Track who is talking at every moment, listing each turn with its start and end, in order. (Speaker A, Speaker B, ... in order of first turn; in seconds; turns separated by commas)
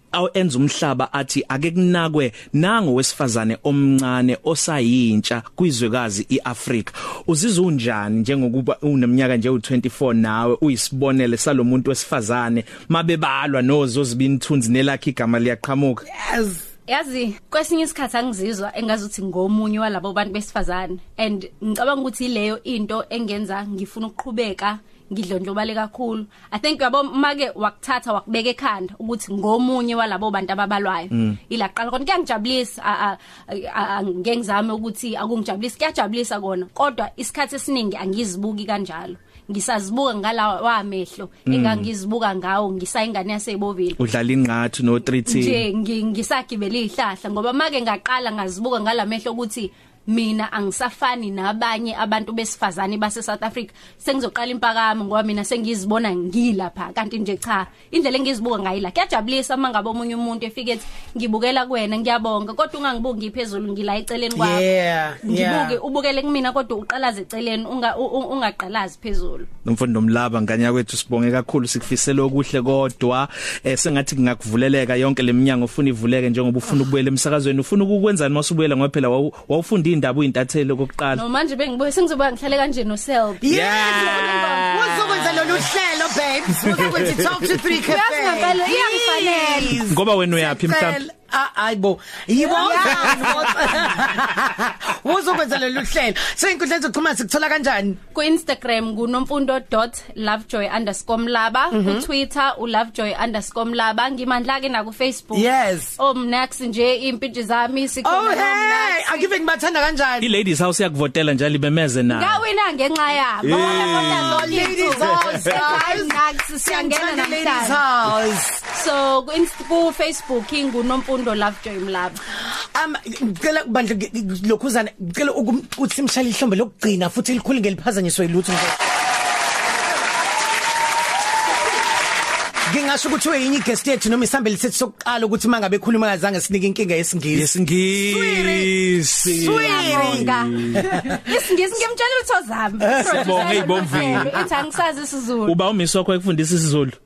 Speaker A: 0.1-16.1, Speaker B: 16.1-16.6, Speaker C: 16.9-44.0, Speaker A: 41.5-41.9, Speaker A: 44.0-45.6, Speaker C: 45.3-64.7, Speaker B: 64.3-65.8, Speaker C: 65.2-69.5, Speaker A: 69.7-81.2, Speaker C: 81.1-84.4, Speaker B: 83.4-98.0, Speaker A: 83.5-85.7, Speaker A: 86.8-87.5, Speaker C: 87.7-89.9, Speaker A: 89.8-91.0, Speaker C: 92.4-93.8, Speaker C: 98.1-109.3, Speaker B: 101.7-102.1, Speaker B: 105.3-106.0, Speaker B: 108.0-110.3, Speaker A: 110.2-112.4, Speaker C: 112.1-117.8, Speaker A: 113.4-115.6, Speaker B: 113.6-118.6, Speaker C: 118.7-122.2, Speaker B: 122.7-128.8, Speaker B: 132.7-141.2, Speaker A: 137.3-141.1, Speaker C: 139.3-145.6, Speaker B: 142.8-144.5, Speaker A: 142.9-144.4, Speaker A: 145.4-147.0